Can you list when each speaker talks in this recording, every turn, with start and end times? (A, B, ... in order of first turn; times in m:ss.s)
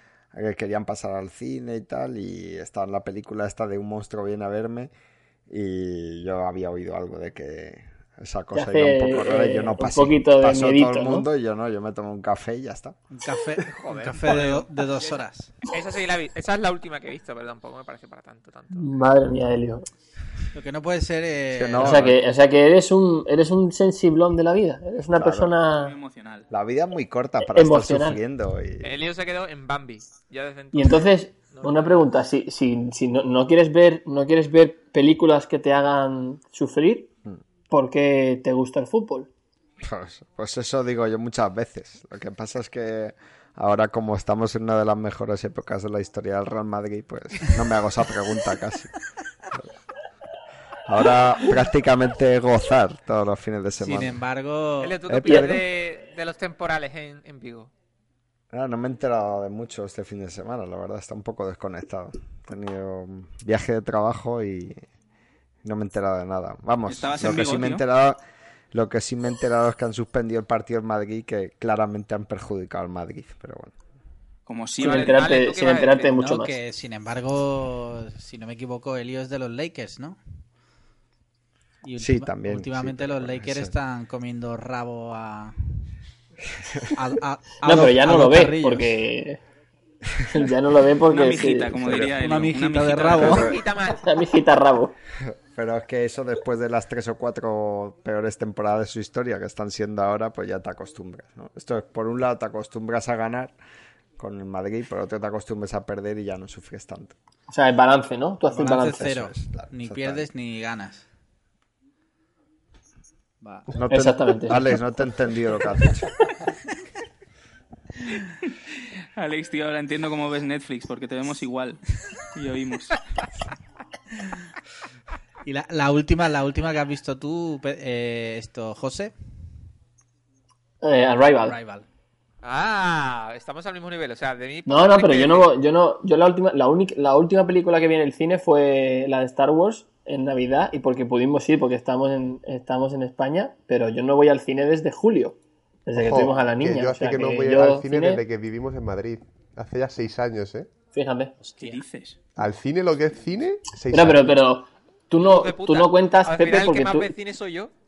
0:00.3-0:04.9 A
0:05.5-0:13.0 A
0:08.5-0:11.3 B
0:13.1-0:15.5 C
0:13.7-0:15.2 D
0:15.7-0:19.1 D
0:18.7-0:19.9 B
0:20.5-0:22.1 C
0:21.5-0:22.2 A
0:21.8-0:26.0 B
0:25.1-0:25.5 A
0:25.7-0:26.5 E
0:26.5-0:29.0 A
0:27.4-0:28.2 B
0:28.8-0:32.1 D
0:30.7-0:37.1 B
0:37.7-0:39.3 B
0:39.8-0:48.9 A
0:50.8-0:54.2 A
0:53.8-0:55.0 C
0:54.8-0:57.7 D
0:55.1-0:55.6 A
0:55.3-0:55.6 B
0:58.5-1:04.8 A
1:05.6-1:08.2 A
1:06.9-1:07.8 E
1:08.7-1:13.7 A
1:14.4-1:15.3 E
1:14.8-1:16.1 D
1:14.8-1:16.6 B
1:16.1-1:20.2 C
1:21.8-1:25.6 C
1:22.0-1:23.7 A
1:26.5-1:26.9 A
1:26.9-1:29.0 C
1:27.6-1:29.4 B
1:30.3-1:31.8 B
1:31.0-1:33.4 E
1:31.8-1:32.1 A
1:32.1-1:33.5 C
1:33.1-1:34.0 D
1:33.2-1:33.6 A
1:34.0-1:35.0 B
1:35.5-1:43.5 A
1:44.2-1:47.1 A
1:47.5-1:49.1 B
1:48.5-1:51.0 C
1:48.6-1:50.3 A
1:53.4-1:53.7 C
1:53.7-1:56.1 A
1:53.9-1:54.7 B
1:59.2-2:03.0 E
2:05.4-2:09.1 C
2:10.8-2:11.6 B
2:11.4-2:11.8 C
2:12.4-2:15.5 D
2:14.7-2:28.2 B
2:26.0-2:30.7 F
2:30.9-2:31.4 B
2:31.4-2:31.8 C
2:31.6-2:32.2 E
2:32.4-2:34.4 F
2:33.9-2:37.2 B
2:35.2-2:37.7 D